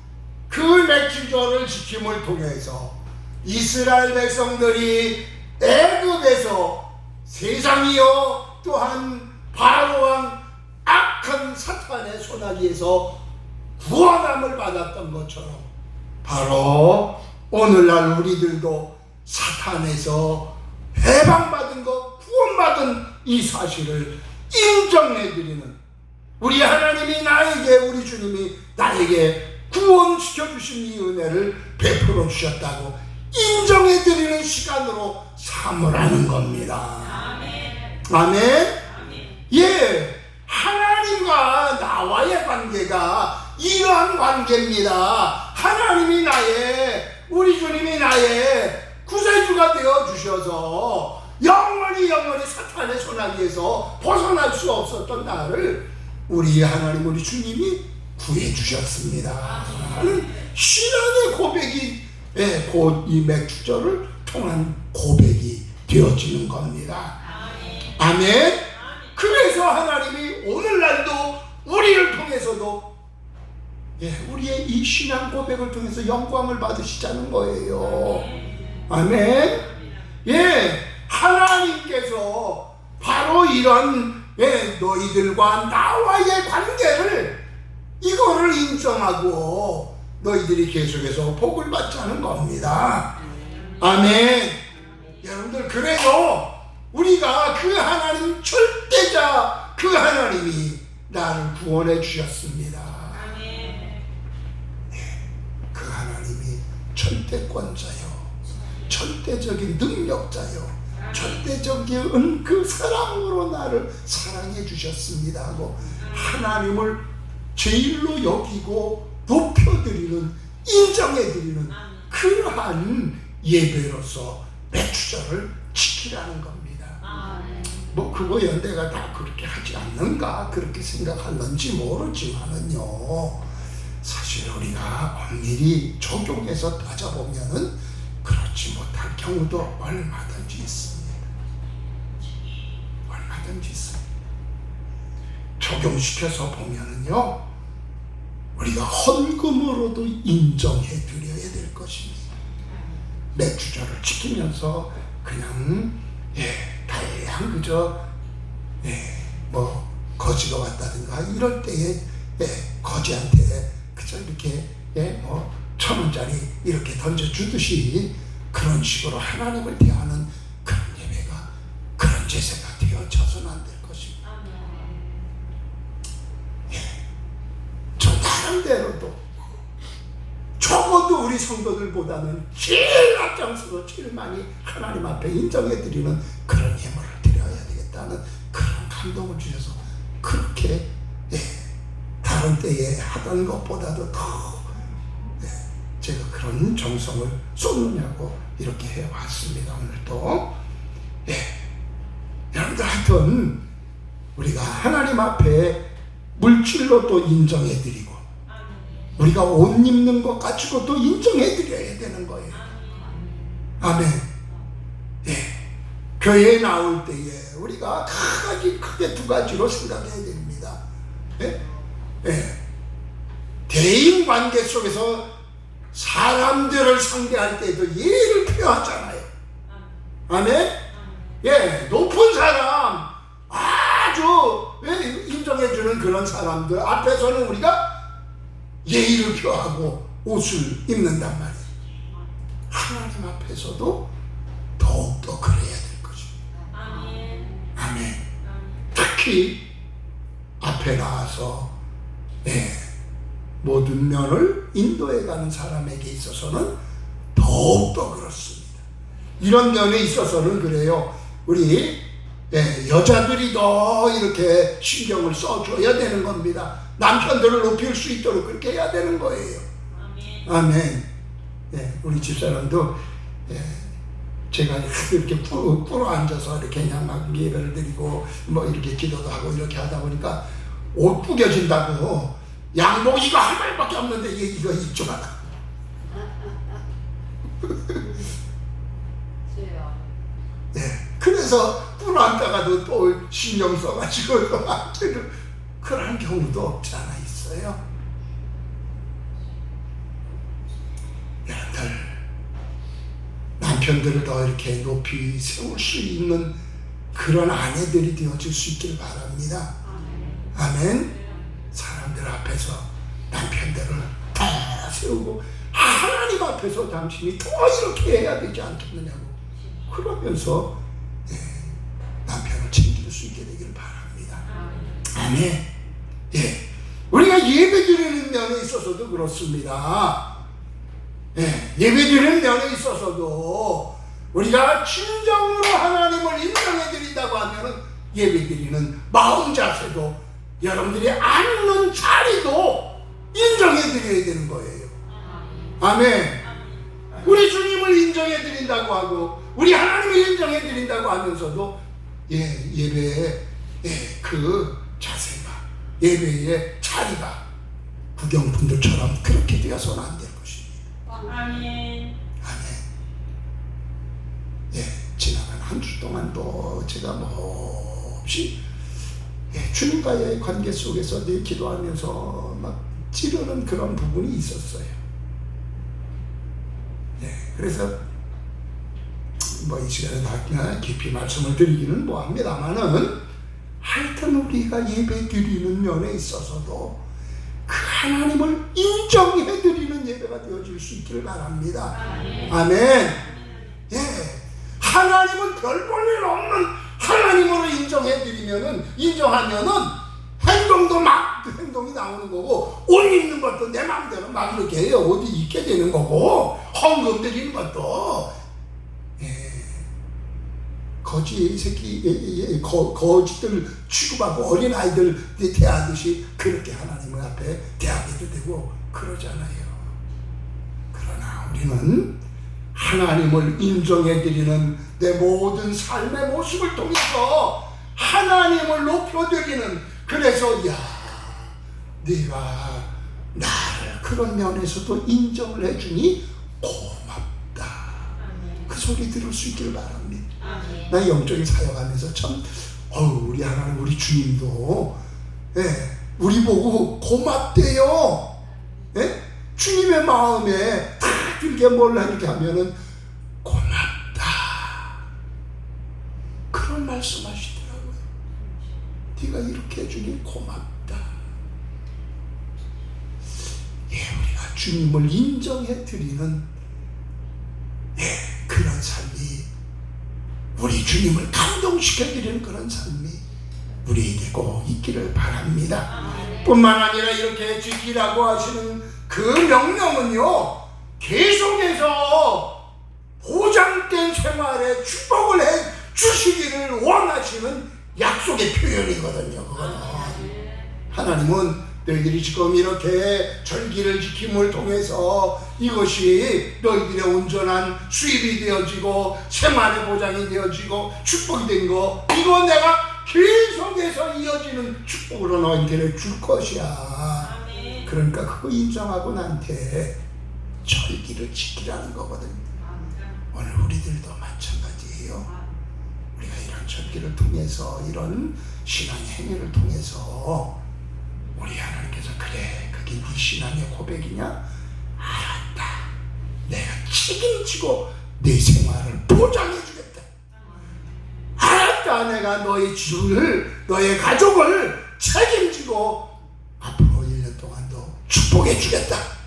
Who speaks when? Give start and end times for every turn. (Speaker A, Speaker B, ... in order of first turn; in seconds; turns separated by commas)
Speaker A: 0.5-13.2, Speaker A: 13.8-15.7, Speaker A: 16.2-25.8, Speaker A: 26.4-37.3, Speaker B: 37.4-37.7, Speaker A: 38.1-38.8, Speaker A: 39.5-67.2, Speaker A: 68.0-72.8, Speaker A: 74.0-78.3, Speaker A: 78.9-79.7, Speaker A: 80.2-87.4, Speaker A: 88.0-93.1, Speaker A: 93.8-94.6, Speaker A: 95.2-103.5, Speaker A: 104.9-105.2, Speaker A: 105.7-108.3, Speaker A: 108.9-127.0, Speaker B: 127.0-127.9, Speaker A: 127.9-133.5, Speaker A: 134.0-141.3, Speaker A: 143.1-144.0, Speaker A: 145.6-147.4, Speaker A: 148.6-152.3, Speaker A: 153.3-158.0, Speaker A: 158.8-174.2, Speaker B: 174.4-175.1, Speaker A: 176.7-177.0, Speaker A: 178.0-179.2, Speaker A: 180.6-191.7, Speaker A: 192.2-194.7, Speaker A: 195.4-200.5, Speaker A: 201.3-201.7, Speaker A: 202.5-203.6, Speaker A: 204.4-205.8, Speaker A: 206.4-208.2, Speaker A: 209.2-212.6, Speaker B: 212.7-213.5, Speaker A: 213.8-214.3, Speaker A: 215.2-215.6, Speaker A: 216.2-220.8, Speaker A: 222.2-222.6, Speaker A: 223.7-225.2, Speaker A: 225.9-229.3, Speaker A: 230.3-230.8, Speaker A: 231.4-237.8, Speaker A: 238.8-241.7, Speaker A: 242.7-244.1, Speaker A: 244.8-246.3, Speaker B: 246.6-247.7, Speaker A: 247.8-248.2, Speaker A: 248.9-249.6, Speaker A: 250.6-251.7, Speaker A: 252.4-252.9, Speaker A: 253.6-256.7, Speaker A: 257.4-258.9, Speaker A: 259.4-269.7, Speaker A: 270.5-271.1, Speaker A: 271.7-273.0, Speaker A: 273.5-273.9, Speaker A: 274.5-280.4, Speaker A: 280.9-285.4, Speaker B: 286.1-286.8, Speaker B: 289.5-290.0, Speaker A: 290.7-297.8, Speaker A: 301.5-302.2, Speaker A: 303.6-306.5, Speaker A: 307.1-309.7, Speaker B: 309.9-310.5, Speaker A: 310.6-311.1, Speaker A: 311.7-319.4, Speaker A: 319.9-320.7, Speaker A: 321.3-321.7, Speaker A: 322.2-324.5, Speaker B: 324.5-325.0, Speaker A: 325.1-325.7, Speaker A: 326.3-330.2, Speaker A: 331.4-344.9, Speaker B: 345.1-345.8, Speaker A: 345.8-346.4, Speaker A: 347.2-351.8, Speaker A: 352.3-357.4, Speaker A: 358.2-360.8, Speaker B: 361.1-362.1, Speaker A: 362.4-362.9, Speaker A: 364.7-368.6, Speaker A: 369.5-375.0, Speaker A: 377.2-377.9, Speaker A: 379.5-383.2, Speaker A: 383.8-387.0, Speaker A: 387.7-393.2, Speaker B: 392.1-392.5, Speaker A: 393.9-408.3, Speaker A: 409.2-409.9, Speaker A: 411.0-419.9, Speaker A: 420.9-422.1, Speaker A: 422.8-438.1, Speaker A: 438.7-445.0, Speaker B: 440.6-440.9, Speaker A: 445.5-448.3, Speaker A: 448.9-452.8, Speaker A: 453.4-455.0, Speaker A: 456.5-458.0, Speaker A: 459.2-461.1, Speaker A: 463.9-466.4, Speaker A: 468.0-469.5, Speaker A: 470.6-473.2, Speaker A: 473.8-482.6, Speaker B: 476.0-476.5, Speaker A: 483.2-490.3, Speaker B: 489.7-490.7, Speaker A: 490.9-510.0, Speaker A: 510.6-512.4, Speaker B: 512.5-513.1, Speaker A: 513.3-515.3, Speaker A: 516.2-520.5, Speaker A: 521.4-524.4, Speaker A: 525.0-525.9, Speaker A: 526.5-530.1, Speaker B: 530.4-530.9, Speaker A: 531.4-536.1, Speaker A: 536.6-539.1